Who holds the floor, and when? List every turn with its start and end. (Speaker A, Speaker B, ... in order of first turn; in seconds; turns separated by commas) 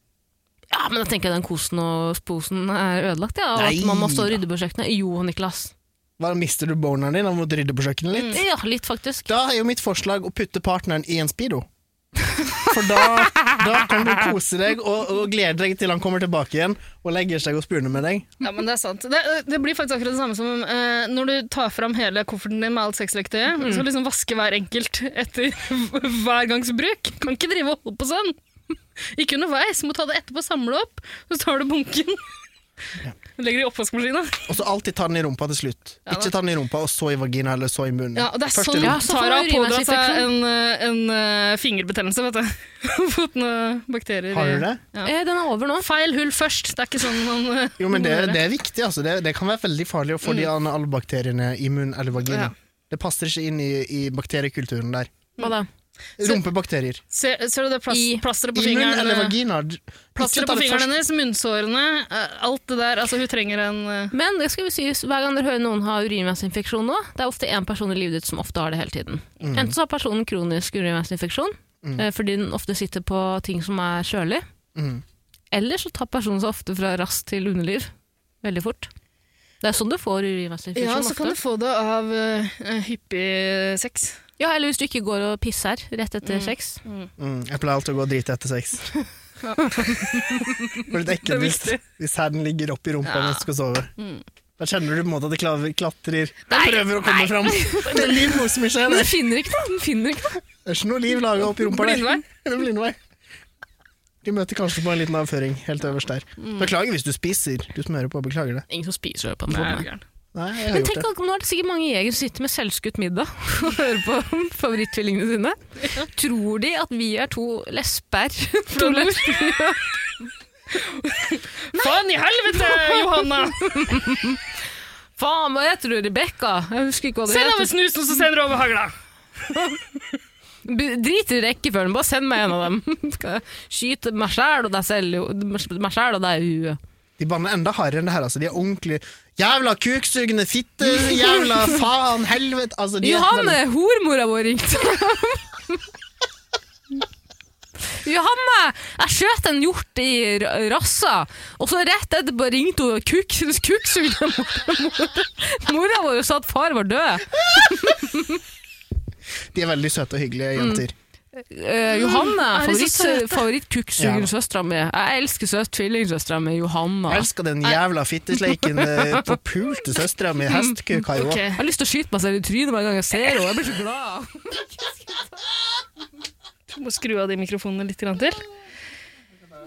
Speaker A: 0.7-5.7, Speaker B: 3.6-4.4, Speaker B: 6.2-8.4, Speaker C: 8.2-8.4, Speaker A: 8.3-9.3, Speaker B: 9.3-11.7, Speaker B: 12.6-18.3, Speaker C: 18.4-28.4, Speaker A: 23.6-23.9, Speaker C: 29.0-32.2, Speaker C: 33.4-34.5, Speaker B: 34.5-39.0, Speaker C: 36.1-36.3, Speaker C: 38.1-45.1, Speaker A: 38.8-40.3, Speaker B: 44.3-44.8, Speaker A: 45.0-45.9, Speaker C: 45.8-48.4, Speaker B: 47.8-55.1, Speaker C: 52.3-52.5, Speaker A: 55.4-55.7, Speaker B: 56.2-57.0, Speaker C: 57.1-59.4, Speaker A: 57.9-58.2, Speaker B: 58.5-60.9, Speaker C: 60.2-64.1, Speaker A: 64.1-74.5, Speaker B: 69.4-69.7, Speaker B: 74.8-75.0, Speaker A: 75.5-77.9, Speaker A: 78.4-78.9, Speaker A: 79.6-81.4, Speaker C: 80.8-84.2, Speaker A: 84.4-86.8, Speaker C: 86.2-87.1, Speaker B: 87.2-88.9, Speaker C: 89.4-91.8, Speaker A: 89.8-90.4, Speaker B: 90.9-93.9, Speaker C: 93.1-93.4, Speaker C: 94.0-94.2, Speaker B: 94.6-99.2, Speaker A: 96.5-100.4, Speaker B: 100.7-103.0, Speaker C: 101.5-102.2, Speaker B: 104.2-108.7, Speaker C: 106.4-106.7, Speaker A: 108.7-109.9, Speaker C: 109.5-110.0, Speaker B: 110.3-111.1, Speaker A: 110.7-119.8, Speaker C: 118.7-119.8, Speaker C: 120.8-123.9, Speaker A: 121.7-124.4, Speaker A: 125.2-127.7, Speaker C: 127.3-128.9, Speaker A: 130.7-136.8, Speaker B: 137.2-143.6, Speaker A: 143.0-145.8, Speaker A: 148.0-158.4, Speaker B: 159.5-160.9, Speaker A: 160.6-160.8, Speaker A: 161.3-167.3, Speaker C: 161.9-163.5, Speaker B: 164.0-164.3, Speaker B: 167.1-171.4, Speaker A: 168.5-169.4, Speaker C: 171.1-171.6, Speaker A: 171.6-174.6, Speaker C: 176.7-178.4